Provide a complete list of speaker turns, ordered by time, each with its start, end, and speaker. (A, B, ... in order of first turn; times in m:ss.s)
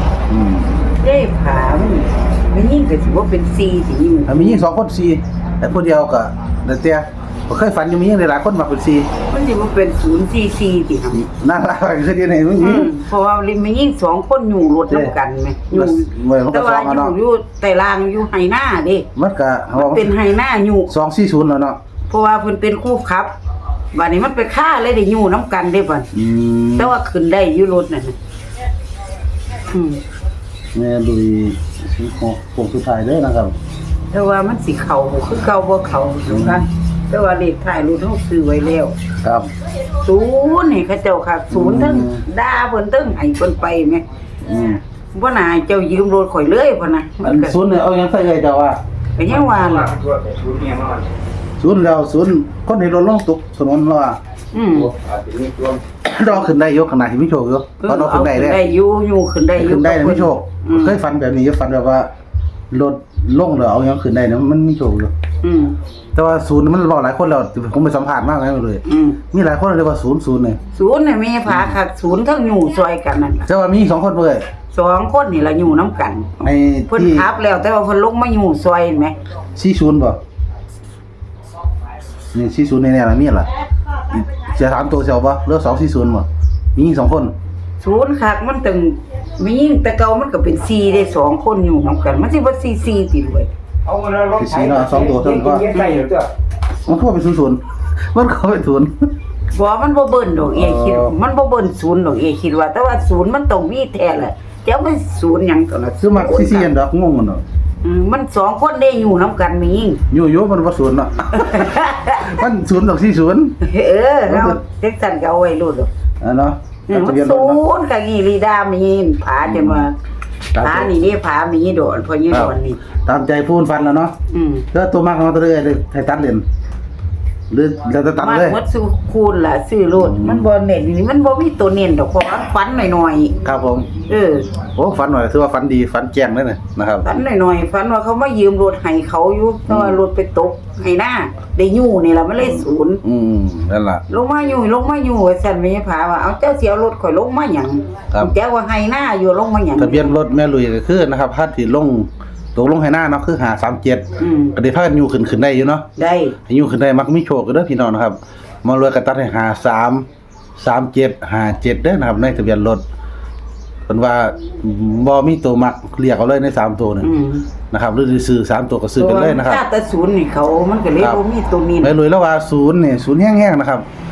0:00.3-0:00.7 A
0:01.0-0:04.6 B
0:04.3-0:09.1 A
0:09.3-0:11.2 B
0:11.1-0:12.9 A
0:12.6-0:19.1 B
0:15.7-0:17.1 A
0:19.2-0:20.1 A
0:19.7-0:20.9 B
0:20.9-0:21.8 A
0:22.1-0:23.3 B
0:23.9-0:26.1 B
0:26.1-0:26.9 A
0:26.8-0:28.2 B
0:29.7-0:30.0 B
0:30.7-0:33.6 A
0:34.1-0:39.0 B
0:36.3-0:36.6 A
0:39.2-0:39.5 A
0:40.0-0:44.0 B
0:41.5-0:42.2 A
0:44.4-0:44.8 A
0:45.1-0:47.6 B
0:47.2-0:48.8 A
0:49.2-0:50.0 B
0:49.9-0:51.0 C
0:51.6-0:54.2 A
0:54.5-0:55.0 B
0:55.0-0:55.8 C
0:56.0-0:58.6 A
0:57.8-1:01.0 B
0:59.6-1:02.1 A
1:02.7-1:05.1 A
1:05.4-1:05.8 B
1:06.2-1:10.6 A
1:08.8-1:09.2 B
1:10.7-1:13.5 B
1:13.5-1:14.5 A
1:14.7-1:16.3 B
1:16.4-1:17.2 A
1:16.9-1:19.2 B
1:19.6-1:20.2 A
1:22.3-1:23.5 A
1:24.1-1:27.3 A
1:27.8-1:33.5 B
1:33.9-1:36.3 C
1:34.4-1:35.7 A
1:35.7-1:36.2 B
1:36.9-1:39.0 A
1:39.5-1:46.7 B
1:40.5-1:41.1 A
1:46.0-1:47.4 A
1:47.8-1:50.0 B
1:50.1-1:53.6 A
1:51.4-1:52.2 B
1:53.6-1:55.9 B
1:54.3-1:54.6 A
1:56.2-1:57.6 A
1:56.9-2:00.0 B
1:59.4-1:59.8 A
2:00.5-2:01.0 A
2:00.6-2:02.8 B
2:03.0-2:04.1 A
2:04.3-2:04.7 B
2:04.7-2:06.4 A
2:07.5-2:08.6 A
2:08.2-2:13.4 B
2:10.0-2:10.4 A
2:13.4-2:13.9 A
2:14.1-2:14.5 B
2:14.6-2:17.1 A
2:17.0-2:23.0 B
2:19.7-2:20.0 A
2:23.0-2:24.0 A
2:24.1-2:30.2 B
2:29.8-2:35.9 A
2:34.2-2:34.6 B
2:36.0-2:36.4 B
2:36.5-2:40.1 A
2:40.6-2:42.8 A
2:43.9-2:47.1 A
2:47.0-2:47.5 B
2:47.7-2:49.6 A
2:49.0-2:51.9 B
2:51.8-2:53.9 A